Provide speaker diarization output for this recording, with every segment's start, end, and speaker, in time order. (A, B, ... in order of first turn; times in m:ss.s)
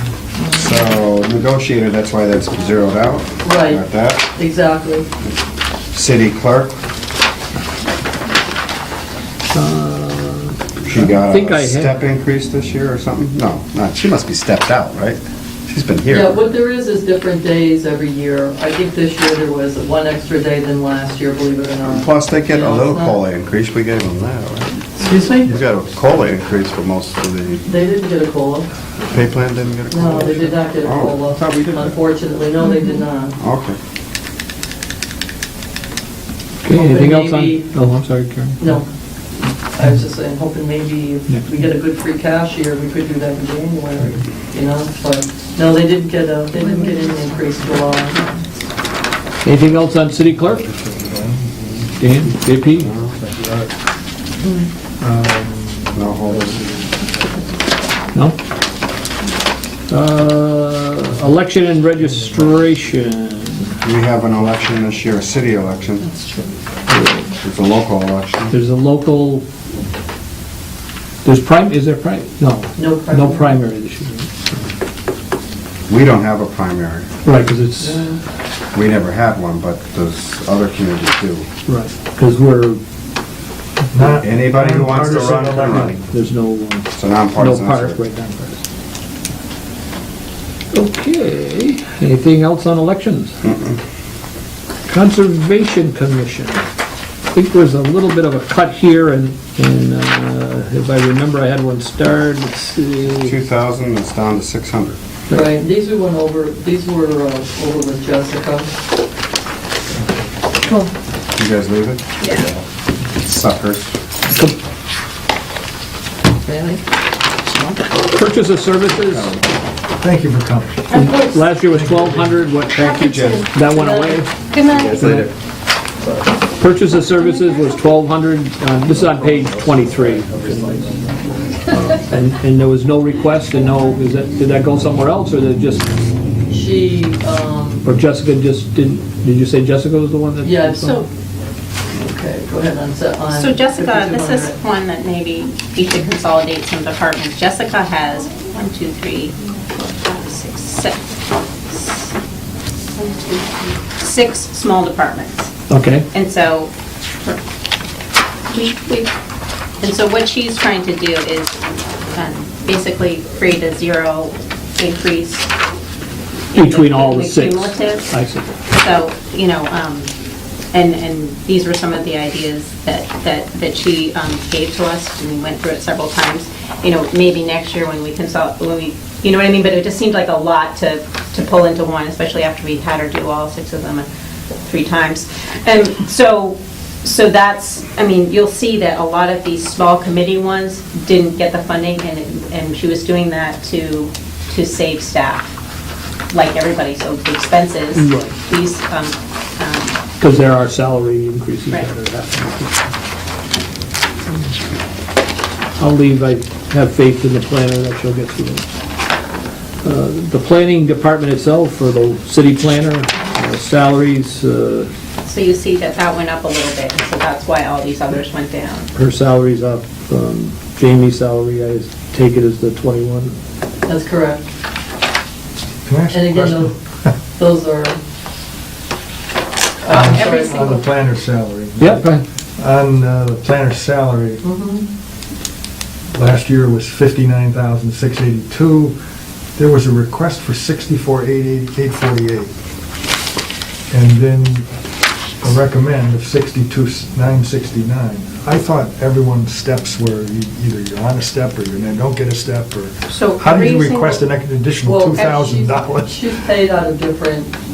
0:00.5-0:04.3 A
0:03.4-0:05.1 B
0:05.9-0:06.8 A
0:09.5-0:12.0 C
0:10.8-0:16.4 A
0:16.1-0:23.2 B
0:21.8-0:27.6 A
0:25.0-0:25.4 B
0:27.6-0:28.7 B
0:29.0-0:31.8 A
0:29.9-0:33.4 B
0:33.4-0:33.8 A
0:36.6-0:38.6 C
0:36.7-0:37.7 B
0:38.6-0:38.9 B
0:39.7-0:48.2 B
0:49.4-0:50.7 C
0:50.5-0:51.9 D
0:52.0-0:52.9 C
0:52.8-0:53.7 D
0:52.8-0:53.2 A
0:55.0-0:57.1 D
0:55.9-0:56.6 A
0:59.9-1:03.8 C
1:02.2-1:02.5 D
1:03.8-1:06.1 A
1:04.2-1:04.7 D
1:06.9-1:07.3 C
1:07.4-1:08.5 A
1:08.5-1:09.4 C
1:11.2-1:14.4 C
1:12.8-1:13.6 B
1:15.9-1:17.1 A
1:17.2-1:18.1 C
1:17.8-1:18.2 B
1:18.7-1:21.4 A
1:21.7-1:22.8 C
1:23.9-1:26.0 D
1:24.2-1:26.0 A
1:25.6-1:28.6 C
1:26.9-1:28.0 A
1:30.7-1:33.4 C
1:33.4-1:33.8 A
1:34.9-1:36.6 C
1:37.3-1:43.4 C
1:43.2-1:45.0 A
1:45.3-1:48.7 B
1:51.4-1:52.6 A
1:52.2-1:52.5 E
1:53.2-1:54.0 A
1:54.3-1:54.5 C
1:56.4-1:56.8 B
1:57.9-1:59.4 C
2:00.0-2:01.1 D
2:00.9-2:05.3 C
2:01.6-2:02.5 D
2:03.0-2:03.5 A
2:03.8-2:04.3 B
2:04.7-2:05.3 A
2:06.6-2:10.9 C
2:10.6-2:11.0 D
2:11.7-2:15.9 C
2:16.5-2:17.8 B
2:17.8-2:21.0 C
2:20.4-2:20.9 B
2:21.9-2:24.6 B
2:23.3-2:31.1 E
2:31.6-2:32.2 E
2:32.9-2:35.5 E
2:35.7-2:36.1 C
2:36.1-2:37.4 E
2:38.5-2:39.1 E
2:39.8-2:41.6 E
2:42.1-2:45.5 E
2:46.5-2:48.1 E
2:46.5-2:48.6 C
2:48.7-2:50.1 E
2:50.7-3:04.0 E
3:04.6-3:15.5 E
3:16.3-3:20.0 E
3:17.9-3:18.3 C
3:20.2-3:22.8 C
3:25.8-3:28.7 C
3:29.8-3:34.9 C
3:35.2-3:38.9 E
3:38.9-3:43.4 C
3:43.9-3:44.4 B
3:45.8-3:47.1 D
3:46.1-3:46.7 B
3:47.4-3:48.0 B
3:49.8-3:50.6 B
3:49.8-3:50.9 E
3:49.9-3:54.4 D
3:51.8-3:52.2 C
3:54.4-3:54.9 B
3:56.1-3:59.0 D
3:59.6-4:02.5 D
4:03.9-4:04.6 D
4:05.4-4:16.4 D
4:13.0-4:14.3 E
4:14.8-4:17.5 B